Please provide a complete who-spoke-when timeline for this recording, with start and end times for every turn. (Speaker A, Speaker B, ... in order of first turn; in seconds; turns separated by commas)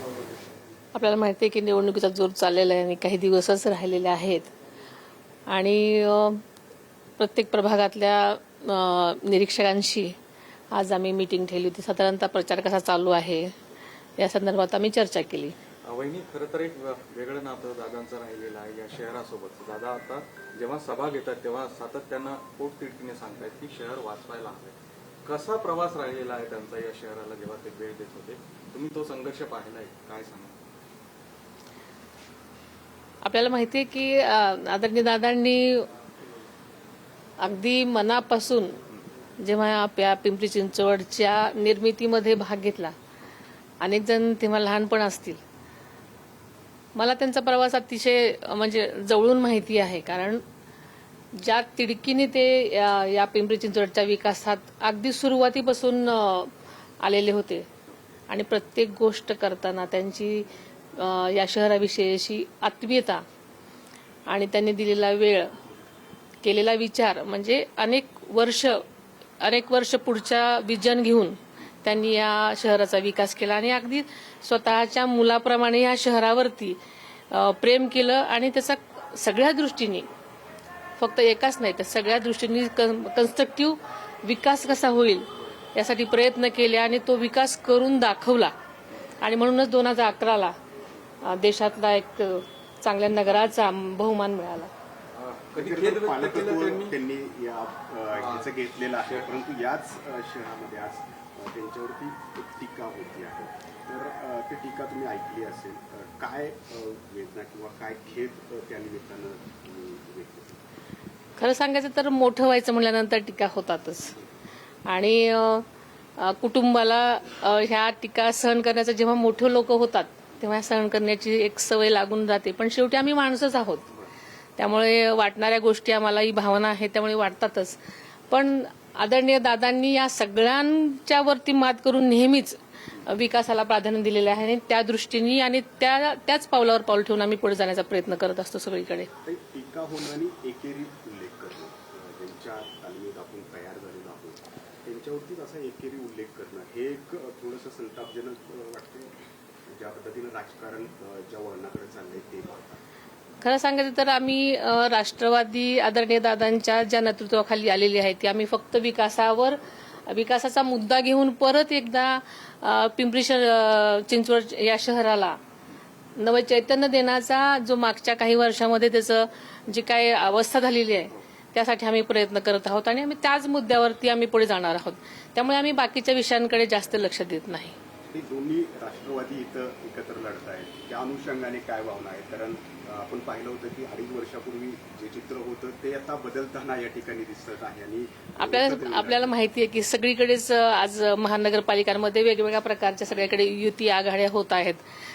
Speaker A: 0.9-4.5, Speaker A: 5.5-6.4, Speaker A: 7.2-10.1, Speaker A: 10.7-13.5, Speaker A: 14.2-15.5, Speaker B: 15.8-30.6, Speaker A: 33.2-35.9, Speaker A: 37.4-38.8, Speaker A: 39.4-42.9, Speaker A: 43.8-45.4, Speaker A: 47.0-50.4, Speaker A: 51.4-57.6, Speaker A: 58.3-63.2, Speaker A: 64.3-65.5, Speaker A: 66.4-68.8, Speaker A: 69.4-76.8, Speaker A: 77.3-80.1, Speaker A: 81.0-88.5, Speaker A: 89.2-90.5, Speaker A: 91.2-94.7, Speaker B: 95.1-97.0, Speaker C: 95.5-110.6, Speaker B: 98.1-98.5, Speaker A: 111.4-114.1, Speaker A: 114.9-115.6, Speaker A: 116.2-123.9, Speaker A: 124.6-127.8, Speaker A: 128.3-139.1, Speaker C: 139.2-149.1, Speaker C: 149.7-152.8, Speaker A: 153.4-165.4, Speaker A: 166.2-177.8, Speaker C: 178.1-189.3, Speaker A: 188.4-194.8